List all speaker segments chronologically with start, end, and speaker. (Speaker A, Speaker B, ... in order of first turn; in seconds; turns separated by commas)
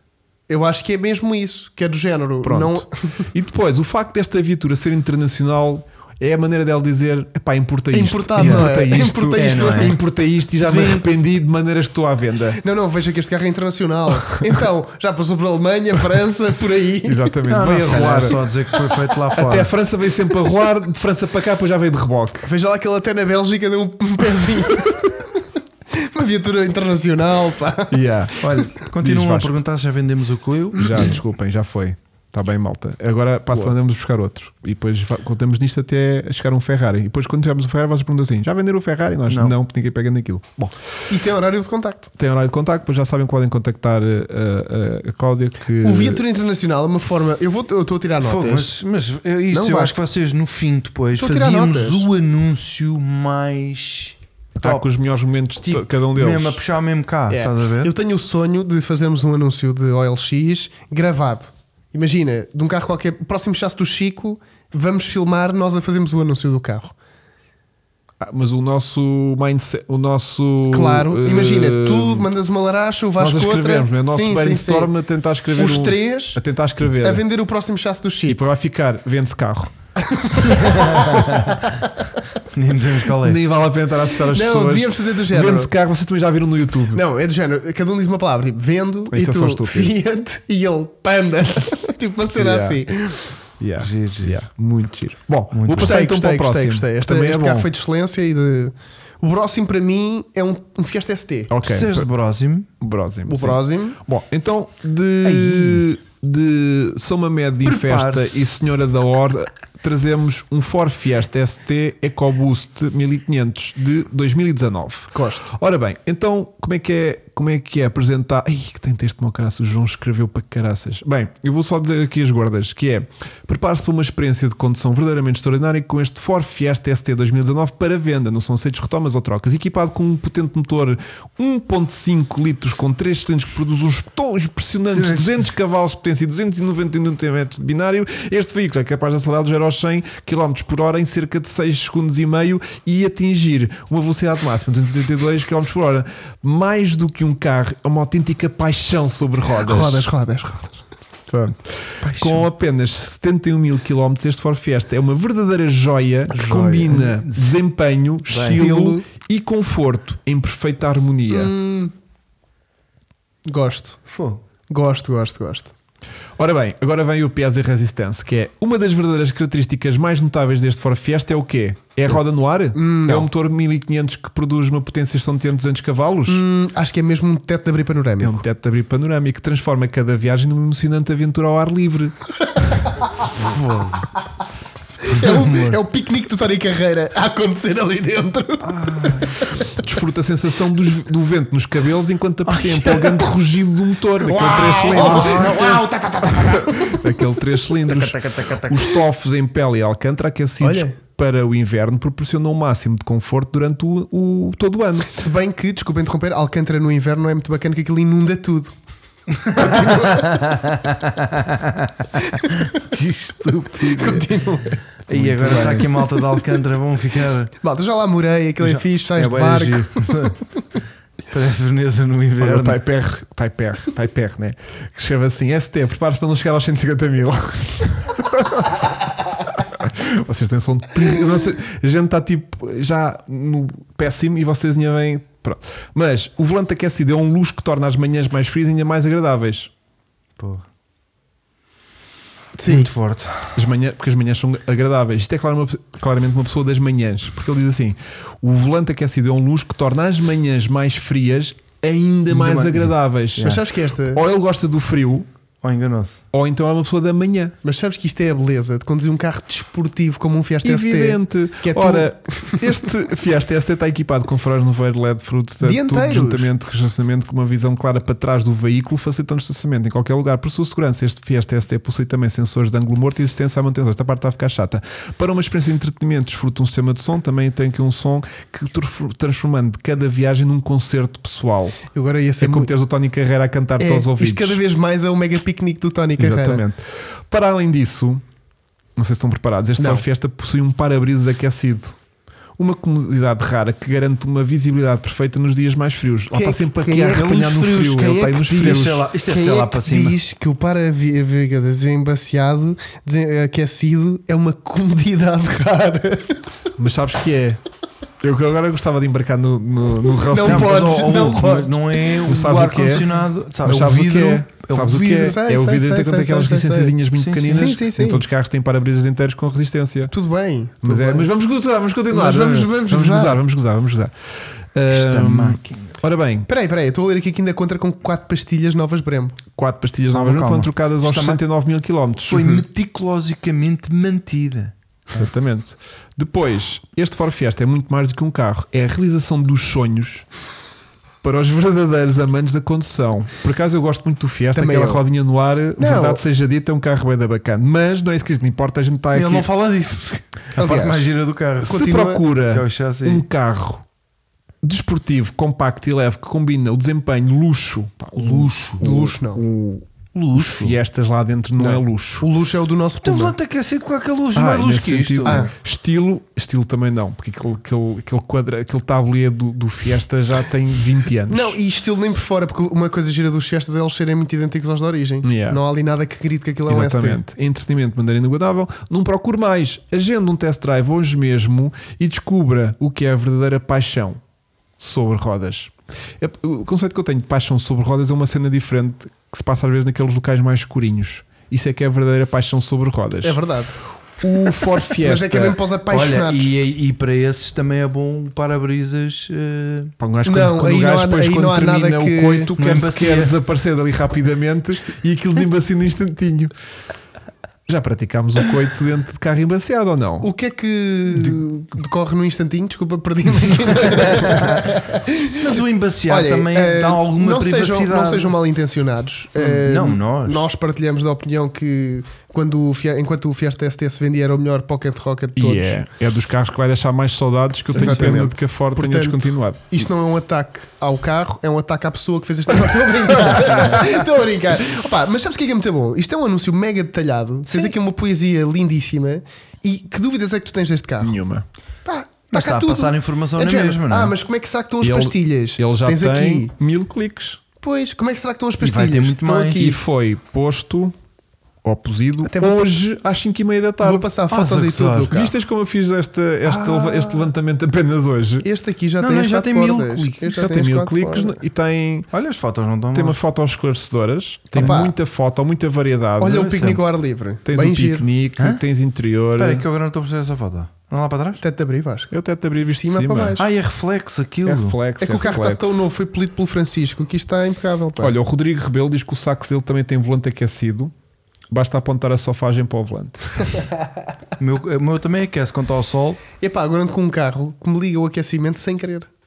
Speaker A: 0.5-3.2, Speaker B: 2.4-12.6, Speaker A: 7.9-9.9, Speaker C: 8.4-8.7, Speaker C: 9.3-10.0, Speaker C: 10.6-11.1, Speaker A: 12.6-17.3, Speaker B: 17.1-18.4, Speaker C: 17.5-19.7, Speaker B: 19.3-22.5, Speaker A: 22.4-25.3, Speaker A: 25.9-28.0, Speaker B: 27.9-29.5, Speaker C: 28.4-31.2, Speaker B: 30.7-40.7, Speaker C: 39.3-39.6, Speaker A: 41.1-42.1, Speaker B: 42.1-46.2, Speaker A: 45.8-48.8, Speaker C: 48.2-54.9, Speaker A: 49.5-50.0, Speaker A: 51.1-52.1, Speaker B: 54.6-56.6, Speaker C: 55.6-57.9, Speaker A: 57.3-66.9, Speaker B: 68.2-72.3, Speaker A: 70.7-74.9, Speaker B: 73.2-77.2, Speaker A: 75.5-76.4, Speaker A: 77.0-78.4, Speaker B: 78.3-79.7, Speaker A: 80.1-81.8, Speaker C: 80.6-81.6, Speaker C: 82.5-83.4, Speaker B: 83.2-87.0, Speaker A: 84.3-85.7, Speaker A: 86.9-93.3, Speaker B: 89.1-90.0, Speaker B: 92.3-92.8, Speaker B: 93.6-97.7, Speaker C: 93.8-94.4, Speaker C: 95.5-96.0, Speaker A: 95.8-101.5, Speaker B: 101.5-102.1, Speaker C: 101.7-102.7, Speaker B: 102.8-150.1, Speaker A: 103.3-104.0, Speaker C: 105.2-105.8, Speaker C: 107.6-108.5, Speaker A: 115.1-115.5, Speaker C: 134.9-135.5, Speaker A: 149.6-150.8, Speaker B: 151.3-161.5, Speaker C: 152.0-152.5, Speaker C: 156.3-157.6, Speaker A: 156.4-157.0, Speaker C: 158.3-158.7, Speaker A: 158.4-159.1, Speaker A: 161.3-161.9, Speaker A: 163.4-164.0, Speaker C: 164.1-164.4, Speaker A: 164.7-165.7, Speaker B: 166.4-176.4, Speaker A: 172.7-173.3, Speaker A: 176.3-178.4, Speaker B: 178.2-182.9, Speaker C: 183.3-184.1, Speaker A: 185.0-189.7, Speaker C: 185.1-185.8, Speaker C: 188.6-189.4, Speaker B: 189.7-195.7, Speaker C: 192.4-193.3, Speaker A: 194.2-197.2, Speaker C: 194.5-195.8, Speaker B: 196.4-205.1, Speaker A: 198.1-198.7, Speaker C: 198.1-198.6, Speaker A: 200.6-200.9, Speaker A: 205.1-208.7, Speaker A: 209.4-210.4, Speaker C: 209.5-214.3, Speaker A: 212.2-212.5, Speaker A: 213.8-214.8, Speaker C: 215.1-217.5, Speaker B: 215.1-215.9, Speaker A: 217.6-220.3, Speaker C: 218.6-220.4, Speaker C: 221.3-222.8, Speaker B: 222.4-228.9, Speaker B: 229.6-239.7, Speaker C: 240.4-240.7, Speaker A: 242.6-242.9, Speaker C: 242.7-243.6, Speaker B: 243.6-255.3, Speaker C: 252.3-253.6, Speaker A: 253.4-254.2, Speaker C: 255.6-256.2, Speaker B: 256.3-257.6, Speaker A: 257.6-262.8, Speaker B: 260.6-281.8, Speaker A: 265.6-266.5, Speaker A: 281.9-282.7, Speaker B: 282.4-284.6, Speaker A: 283.8-286.6, Speaker B: 286.2-288.2, Speaker B: 288.9-291.9, Speaker A: 289.8-290.1, Speaker B: 292.6-299.1, Speaker A: 296.3-306.4, Speaker C: 297.1-300.2, Speaker B: 306.8-307.6, Speaker B: 308.2-311.3, Speaker A: 310.3-311.8, Speaker C: 310.4-315.4, Speaker B: 312.2-313.1, Speaker B: 313.6-320.1, Speaker A: 315.0-318.2, Speaker C: 317.1-317.7, Speaker A: 320.1-321.3, Speaker B: 320.8-324.1, Speaker A: 322.1-323.4, Speaker B: 324.7-326.5, Speaker C: 324.9-326.0, Speaker A: 326.5-329.4, Speaker B: 329.6-332.6, Speaker C: 330.1-331.4, Speaker C: 332.3-334.7, Speaker B: 335.1-340.3, Speaker B: 341.2-349.5, Speaker A: 344.6-345.0, Speaker A: 345.8-346.2, Speaker C: 349.1-351.9, Speaker A: 350.6-351.1, Speaker A: 351.6-352.2, Speaker B: 351.6-353.9, Speaker C: 352.4-353.3, Speaker B: 354.6-362.3, Speaker C: 358.1-358.8, Speaker A: 358.8-359.4, Speaker C: 360.1-360.8, Speaker A: 361.6-363.4, Speaker C: 363.0-365.5, Speaker B: 364.4-371.6, Speaker A: 365.2-365.5, Speaker A: 371.3-377.2, Speaker B: 375.2-375.6, Speaker B: 376.7-384.2, Speaker B: 384.8-393.4, Speaker A: 393.2-393.7, Speaker B: 394.2-395.6, Speaker A: 394.6-396.5, Speaker C: 395.9-399.9, Speaker B: 400.0-406.5, Speaker A: 400.2-402.5, Speaker C: 402.6-403.4, Speaker B: 407.7-410.3, Speaker A: 410.2-415.5, Speaker C: 413.9-414.7, Speaker C: 415.4-418.4, Speaker A: 416.1-425.8, Speaker C: 419.4-420.4, Speaker B: 425.4-429.9, Speaker A: 427.7-441.2, Speaker C: 427.7-428.2, Speaker C: 437.5-437.7, Speaker B: 441.0-441.4, Speaker A: 441.9-446.5, Speaker C: 442.3-444.1, Speaker B: 444.8-447.4, Speaker A: 447.6-449.8, Speaker C: 448.6-449.7, Speaker B: 449.6-450.9, Speaker B: 451.6-454.1, Speaker A: 452.2-452.6, Speaker A: 453.8-455.3, Speaker C: 454.3-455.2, Speaker B: 455.1-458.5, Speaker A: 456.4-457.3, Speaker A: 458.4-461.4, Speaker C: 459.0-460.4, Speaker B: 460.4-462.1, Speaker C: 462.1-463.2, Speaker B: 462.9-466.8, Speaker A: 464.6-464.9, Speaker A: 466.2-468.1, Speaker C: 466.3-466.8, Speaker B: 467.4-469.6, Speaker C: 468.4-468.6, Speaker C: 469.4-471.4, Speaker A: 471.4-472.1, Speaker B: 472.1-473.4, Speaker A: 472.6-473.4, Speaker C: 473.4-474.8, Speaker B: 474.4-475.9, Speaker A: 475.0-478.1, Speaker B: 478.0-480.9, Speaker B: 481.5-483.6, Speaker C: 484.4-486.2, Speaker A: 486.4-489.1